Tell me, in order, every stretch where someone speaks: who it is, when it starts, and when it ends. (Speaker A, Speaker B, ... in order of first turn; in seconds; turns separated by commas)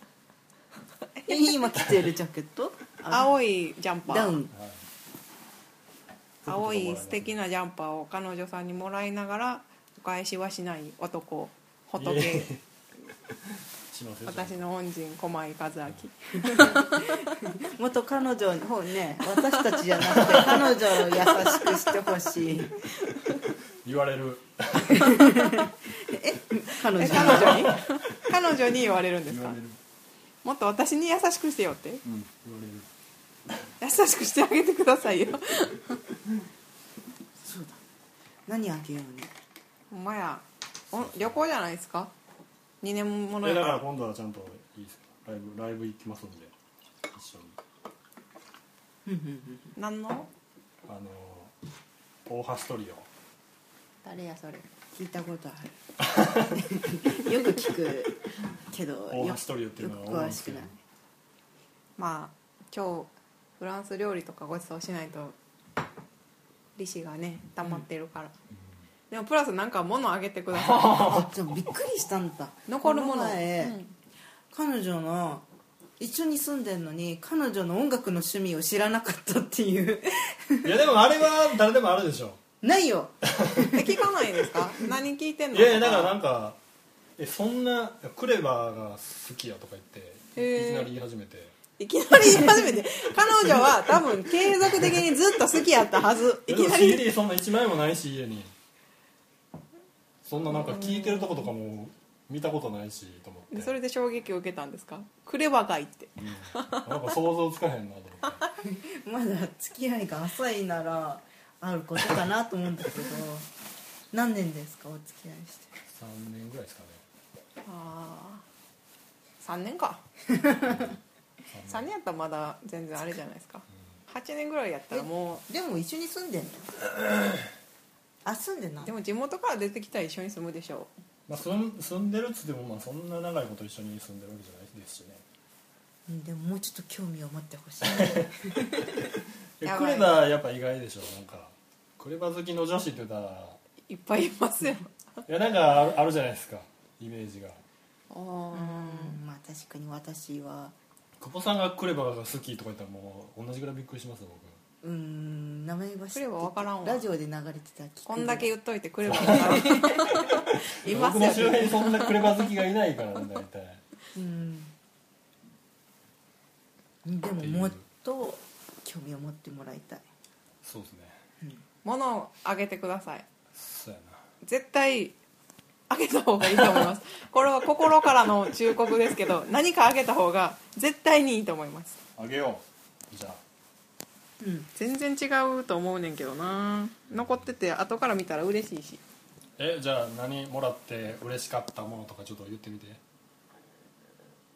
Speaker A: 1.3-3.3, Speaker B: 3.1-4.4, Speaker A: 4.1-4.5, Speaker C: 4.5-4.8, Speaker C: 6.4-7.3, Speaker B: 6.5-12.5, Speaker C: 12.0-12.6, Speaker C: 13.9-14.6, Speaker B: 14.3-17.1, Speaker A: 16.5-22.7, Speaker B: 20.1-21.9, Speaker C: 23.8-25.5, Speaker A: 24.9-27.7, Speaker B: 27.0-29.6, Speaker C: 27.1-27.9, Speaker C: 29.3-29.8, Speaker B: 30.4-32.0, Speaker C: 32.0-32.9, Speaker B: 33.8-36.0, Speaker A: 37.4-37.8, Speaker A: 38.5-39.3, Speaker B: 39.9-42.1, Speaker C: 41.0-41.4, Speaker B: 42.8-43.8, Speaker C: 43.4-46.5, Speaker C: 47.1-47.6, Speaker A: 49.1-49.7, Speaker B: 49.8-50.3, Speaker C: 50.9-51.5, Speaker C: 52.3-53.1, Speaker B: 54.0-54.6, Speaker A: 54.9-55.8, Speaker C: 56.0-56.5, Speaker A: 56.5-60.8, Speaker C: 59.1-60.7, Speaker B: 62.0-65.4, Speaker B: 66.8-68.3, Speaker B: 69.1-71.2, Speaker C: 70.5-71.3, Speaker A: 71.0-73.8, Speaker B: 72.7-73.9, Speaker A: 74.5-75.5, Speaker A: 76.0-80.8, Speaker C: 80.6-82.4, Speaker A: 82.6-84.0, Speaker C: 83.2-83.8, Speaker B: 83.7-86.1, Speaker C: 85.5-86.6, Speaker C: 87.2-91.5, Speaker B: 90.4-90.9, Speaker B: 91.8-97.0, Speaker A: 92.3-92.7, Speaker C: 96.5-98.5, Speaker C: 100.2-103.7, Speaker B: 100.7-101.4, Speaker B: 103.5-107.0, Speaker C: 106.2-108.4, Speaker A: 108.6-113.5, Speaker A: 114.1-115.7, Speaker C: 115.9-117.0, Speaker B: 117.6-118.5, Speaker B: 119.4-120.0, Speaker A: 120.3-120.9, Speaker C: 121.5-121.9, Speaker B: 121.7-125.4, Speaker A: 124.9-126.7, Speaker A: 128.2-128.9, Speaker B: 128.8-130.9, Speaker C: 131.3-135.2, Speaker A: 136.1-139.1, Speaker C: 137.8-138.3, Speaker C: 139.6-143.6, Speaker B: 139.6-140.2, Speaker B: 143.9-144.9, Speaker C: 145.3-147.6, Speaker B: 148.1-149.2, Speaker A: 148.5-150.8, Speaker C: 151.2-154.6, Speaker A: 154.8-158.5, Speaker B: 156.1-157.1, Speaker B: 158.1-162.3, Speaker C: 159.1-159.6, Speaker A: 159.1-160.2, Speaker C: 160.8-163.8, Speaker A: 161.0-161.7, Speaker A: 164.1-164.7, Speaker A: 167.0-170.1, Speaker C: 167.4-167.8, Speaker C: 170.6-171.2, Speaker B: 171.8-173.3, Speaker C: 173.6-174.2, Speaker B: 174.4-175.2, Speaker B: 175.9-182.0, Speaker C: 182.2-183.4, Speaker A: 184.4-184.7, Speaker B: 184.8-189.0, Speaker C: 187.1-187.4, Speaker C: 189.6-193.0